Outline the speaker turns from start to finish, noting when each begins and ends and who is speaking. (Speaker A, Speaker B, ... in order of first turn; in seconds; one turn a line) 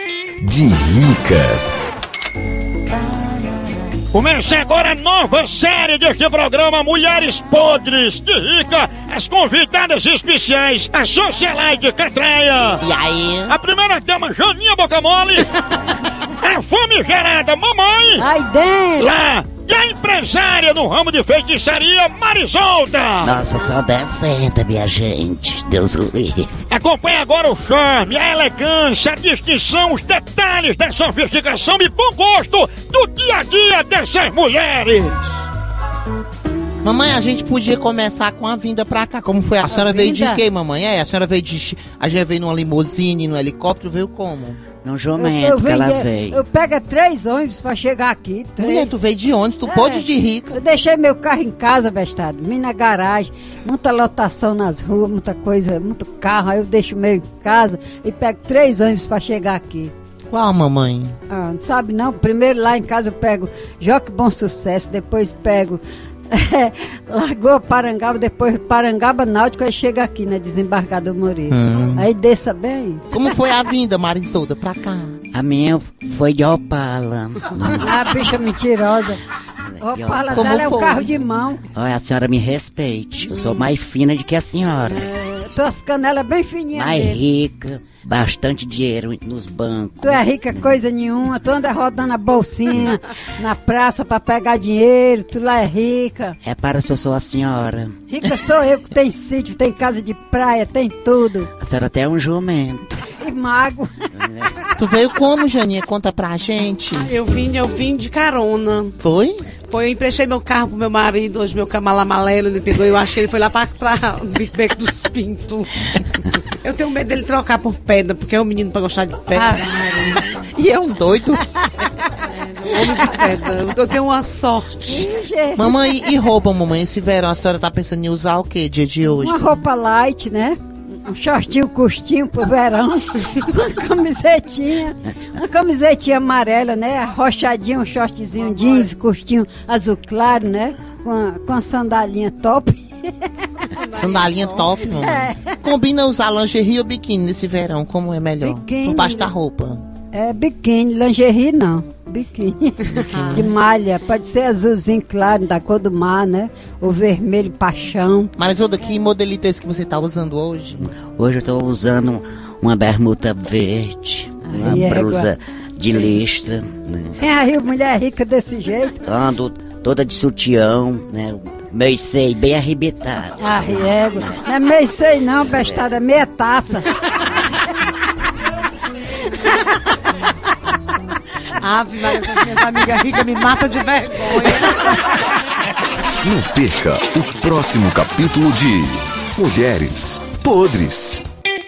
Speaker A: 0.4-1.9
Speaker B: 4.1-12.8
Speaker C: 12.8-13.6
Speaker B: 13.5-15.6
Speaker B: 16.4-18.2
Speaker D: 18.2-19.1
Speaker B: 19.0-23.4
Speaker E: 23.2-26.5
Speaker B: 26.7-35.4
Speaker C: 36.8-44.6
Speaker D: 39.7-40.4
Speaker E: 44.8-46.4
Speaker D: 45.2-49.0
Speaker C: 48.6-50.6
Speaker D: 49.7-59.9
Speaker C: 60.3-61.2
Speaker D: 61.3-73.0
Speaker C: 71.5-72.1
Speaker C: 73.1-75.2
Speaker E: 75.3-77.9
Speaker D: 77.8-79.2
Speaker E: 79.8-80.7
Speaker D: 79.8-81.6
Speaker C: 80.3-81.0
Speaker E: 81.7-85.0
Speaker D: 84.9-87.2
Speaker E: 86.7-90.8
Speaker D: 90.0-96.4
Speaker E: 96.4-98.0
Speaker D: 98.1-101.5
Speaker E: 101.6-103.1
Speaker D: 103.2-104.1
Speaker E: 104.2-104.5
Speaker C: 104.8-107.1
Speaker F: 107.0-109.0
Speaker C: 109.0-109.4
Speaker F: 109.7-120.4
Speaker D: 119.4-119.7
Speaker C: 120.5-121.4
Speaker F: 122.2-125.1
Speaker D: 124.9-125.7
Speaker C: 125.6-129.5
Speaker D: 129.1-142.9
Speaker F: 138.4-138.9
Speaker F: 143.6-145.0
Speaker C: 143.9-149.8
Speaker D: 144.9-145.4
Speaker D: 148.4-149.3
Speaker D: 150.1-158.3
Speaker F: 152.9-153.5
Speaker C: 158.4-160.9
Speaker E: 161.1-167.2
Speaker D: 164.5-165.3
Speaker D: 167.2-169.0
Speaker E: 169.1-174.5
Speaker D: 173.4-176.9
Speaker E: 175.5-175.8
Speaker F: 181.6-185.0
Speaker A: 186.2-191.2